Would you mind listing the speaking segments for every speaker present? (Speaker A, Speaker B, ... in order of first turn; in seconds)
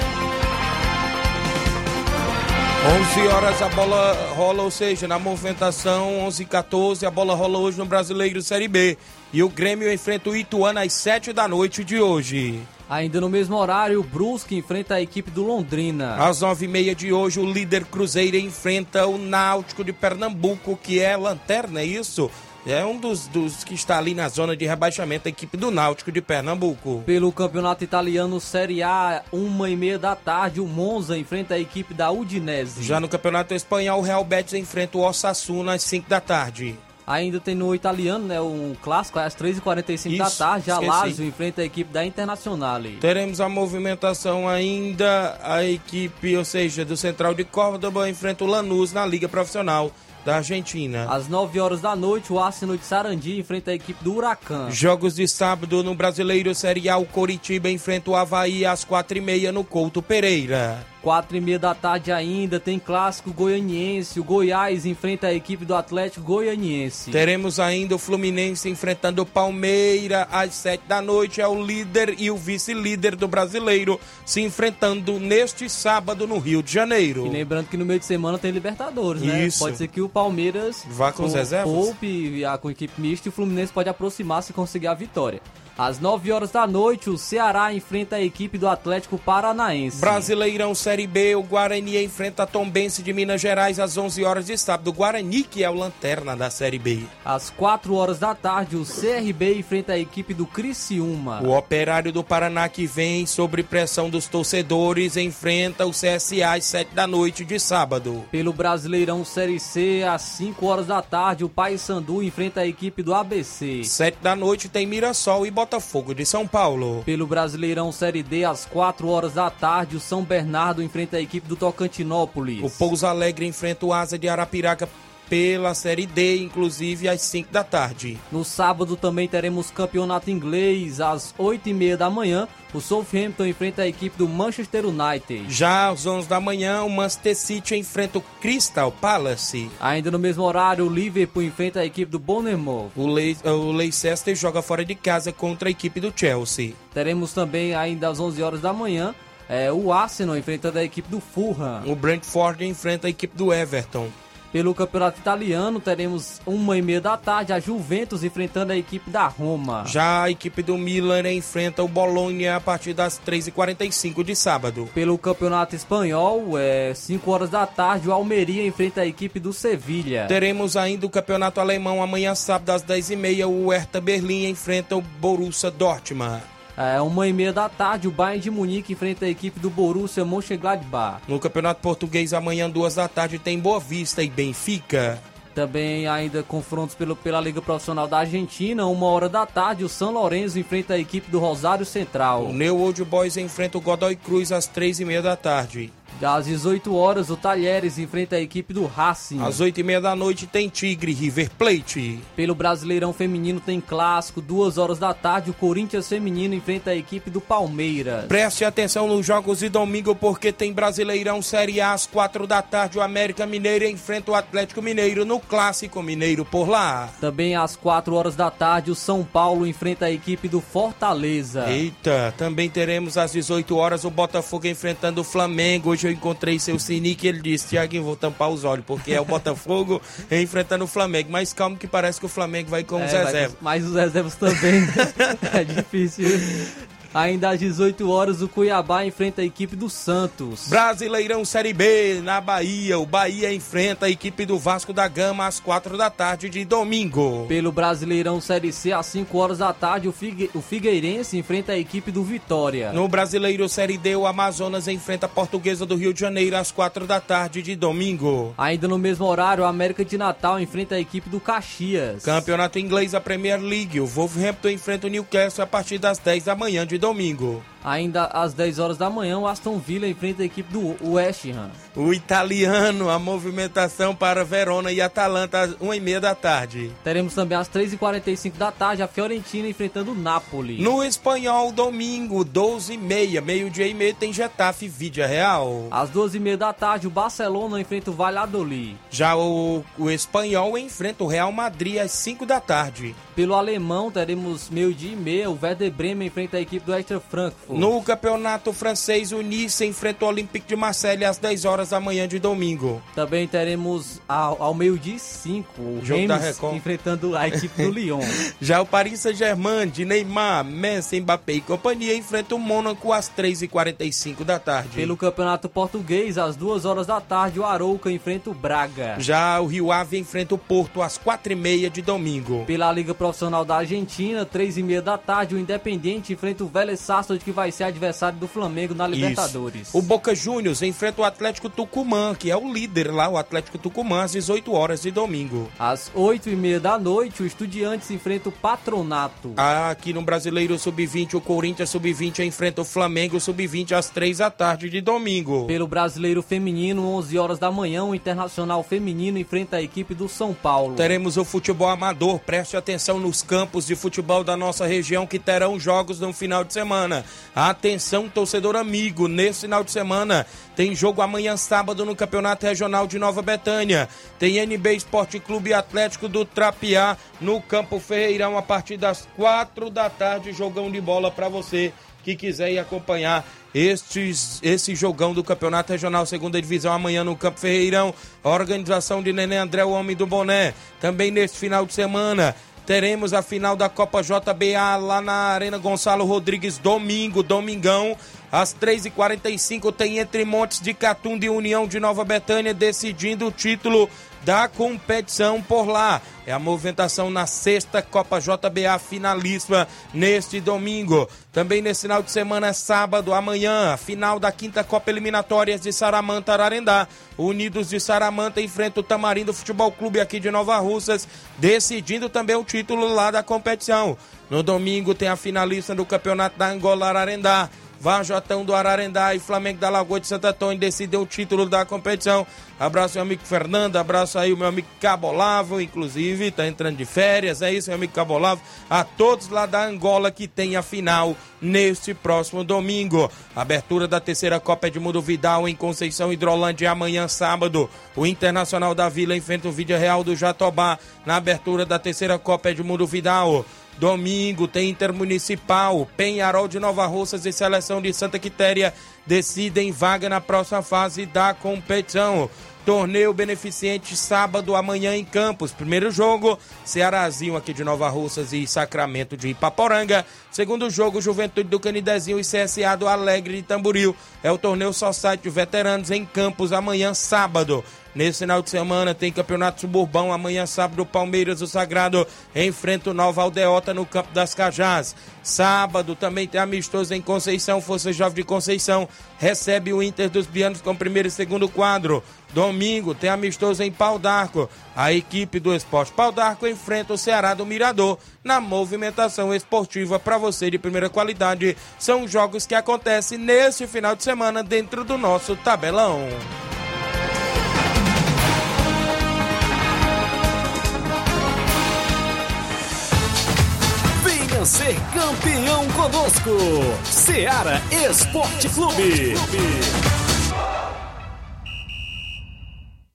Speaker A: 2.8-12.7, 16.2-27.1, 32.8-36.8, 40.1-41.2, 43.0-51.1, 54.7-60.9, 67.1-77.4, 79.2-79.8, 80.9-81.9, 89.9-97.1, 101.4-108.3, 113.8-117.1, 122.6-128.2, 135.5-139.8, 142.9-146.8, 151.8-154.2, 159.8-164.9, 170.3-176.5, 181.3-185.2, 192.4-195.9, 199.4-202.3, 208.3-217.2, 221.6-233.6, 234.5-235.3, 240.7-247.5, 252.9-258.6, 262.2-267.7, 271.9-277.0, 280.8-285.9, 289.1-293.2, 297.7-303.1, 306.0-306.8, 307.7-315.2, 319.2-322.7, 329.1-335.7, 339.6-345.7, 351.0-496.5
Speaker B: 12.9-16.3, 27.1-33.0, 37.1-43.0, 51.1-54.8, 61.0-67.2, 77.2-90.3, 97.2-101.5, 108.3-113.9, 117.1-122.9, 128.3-135.5, 139.8-142.9, 146.9-151.9, 154.5-159.9, 164.9-170.4, 176.8-181.2, 185.6-192.6, 196.2-199.6, 202.4-208.3, 217.2-221.8, 233.0-240.8, 247.5-253.0, 258.6-262.5, 267.8-271.8, 277.0-280.9, 285.9-289.0, 293.4-297.9, 303.1-308.4, 315.0-319.2, 322.7-330.1, 335.8-339.6, 345.7-351.2
Speaker C: 504.2-510.0